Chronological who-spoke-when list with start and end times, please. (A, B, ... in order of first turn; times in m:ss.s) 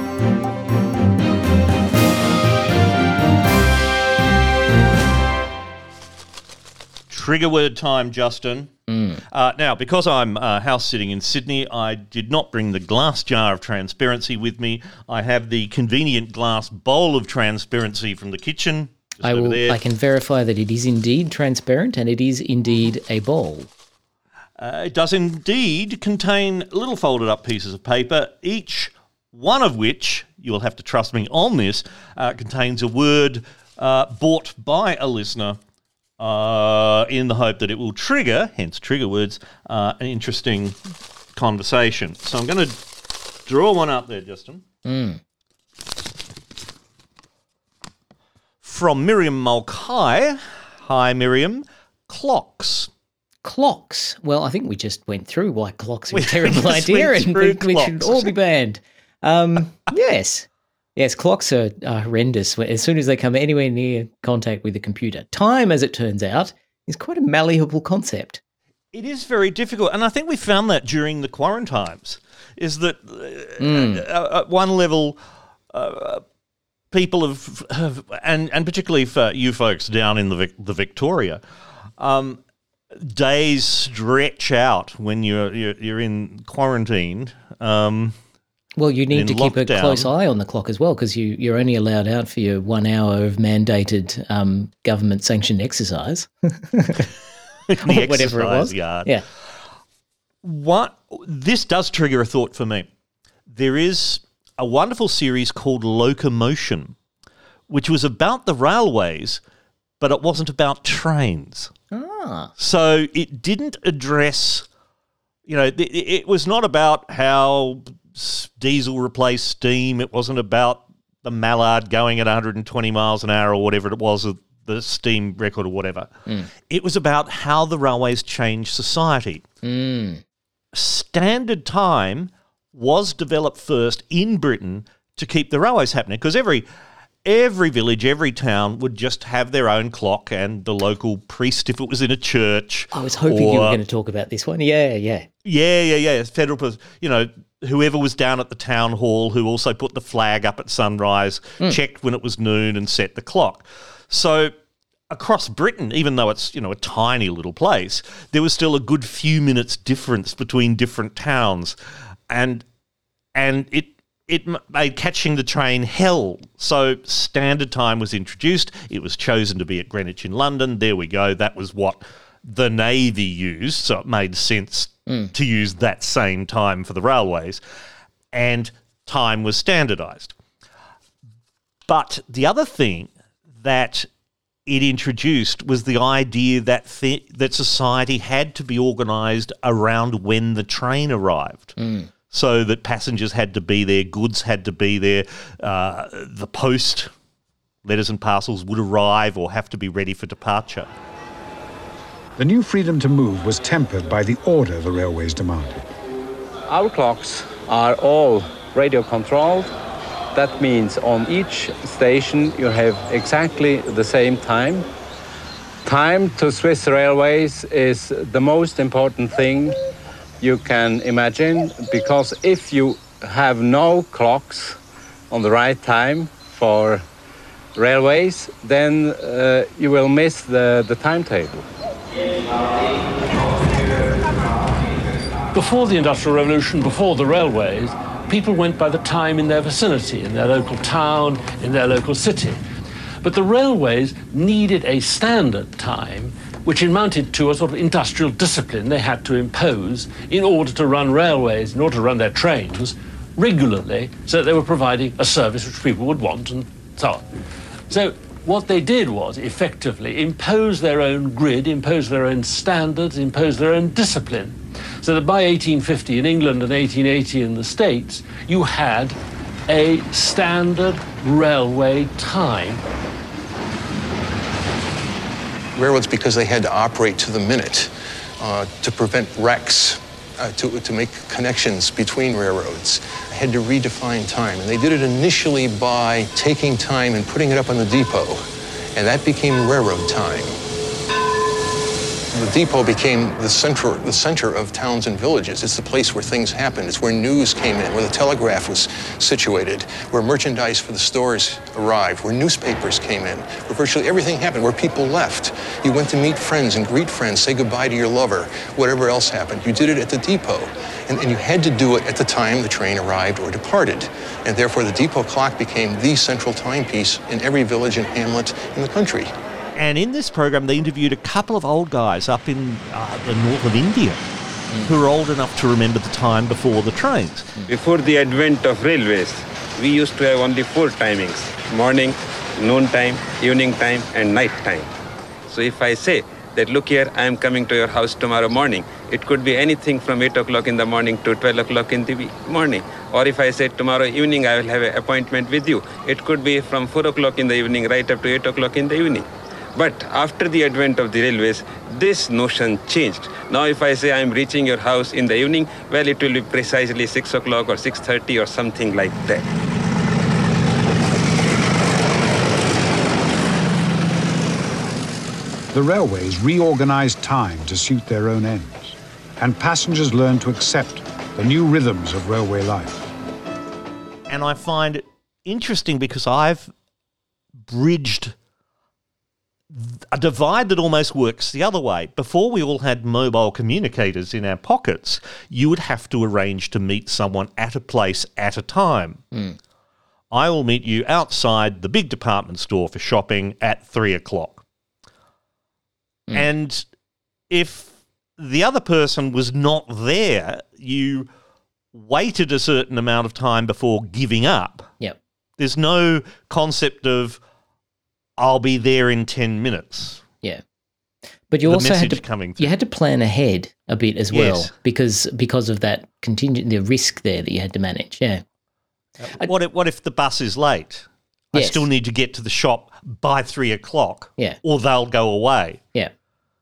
0:07.1-0:08.7 A
0:08.9-0:09.2 B
0:09.3-0:19.8 A
0:19.2-0:23.7 B
0:24.6-0:35.6 A
0:36.2-0:40.8 A
0:41.4-0:44.6 A
0:44.8-0:45.2 B
0:48.6-0:52.9 A
0:53.4-1:08.4 B
0:56.1-0:58.3 A
1:08.9-1:15.2 A
1:13.6-1:14.0 B
1:15.7-1:16.2 A
1:16.9-1:21.4 A
1:22.0-1:22.4 A
1:23.0-1:28.2 A
1:28.8-1:37.1 B
1:29.1-1:30.1 A
1:37.7-1:39.1 A
1:37.8-1:39.2 B
1:40.4-1:42.9 A
1:43.5-1:46.9 A
1:47.7-1:49.4 A
1:50.0-1:51.7 A
1:51.9-1:52.5 B
1:52.6-1:54.7 A
1:55.5-2:06.1 A
2:06.7-2:09.4 A
2:09.6-2:10.2 B
2:10.7-2:16.6 A
2:17.2-2:23.8 A
2:22.9-2:25.3 B
2:25.4-2:34.5 A
2:35.1-2:41.8 A
2:42.3-2:42.6 A
2:43.4-2:57.6 A
2:58.3-3:00.3 A
3:01.9-3:04.1 A
3:04.7-3:11.8 A
3:11.8-3:12.1 B
3:12.3-3:17.1 A
3:17.8-3:20.9 A
3:22.4-3:25.8 C
3:26.7-3:29.7 D
3:30.3-3:34.9 D
3:35.8-3:39.8 D
3:40.4-3:44.8 D
3:45.3-3:47.0 D
3:47.8-3:51.6 D
3:55.5-4:02.6 E
4:03.2-4:17.2 E
4:17.9-4:29.2 E
4:29.7-4:32.8 E
4:35.8-4:48.4 F
4:49.0-4:50.6 F
4:52.3-5:19.3 F
5:19.8-5:24.2 A
5:24.9-5:27.5 A
5:27.7-5:34.9 G
5:35.5-5:59.4 G
6:05.7-6:13.1 C
6:14.3-6:16.7 A
6:17.7-6:18.4 A
6:19.7-6:29.2 A
6:29.3-6:29.6 B
6:30.3-6:34.6 A
6:36.3-6:36.8 A
6:37.5-6:41.3 A
6:41.9-6:44.9 A
6:45.6-6:47.4 A
6:48.4-6:50.2 A
6:51.5-6:58.4 B
6:51.6-6:52.7 A
6:54.3-6:54.7 A
6:59.4-7:05.8 A
7:01.5-7:01.9 B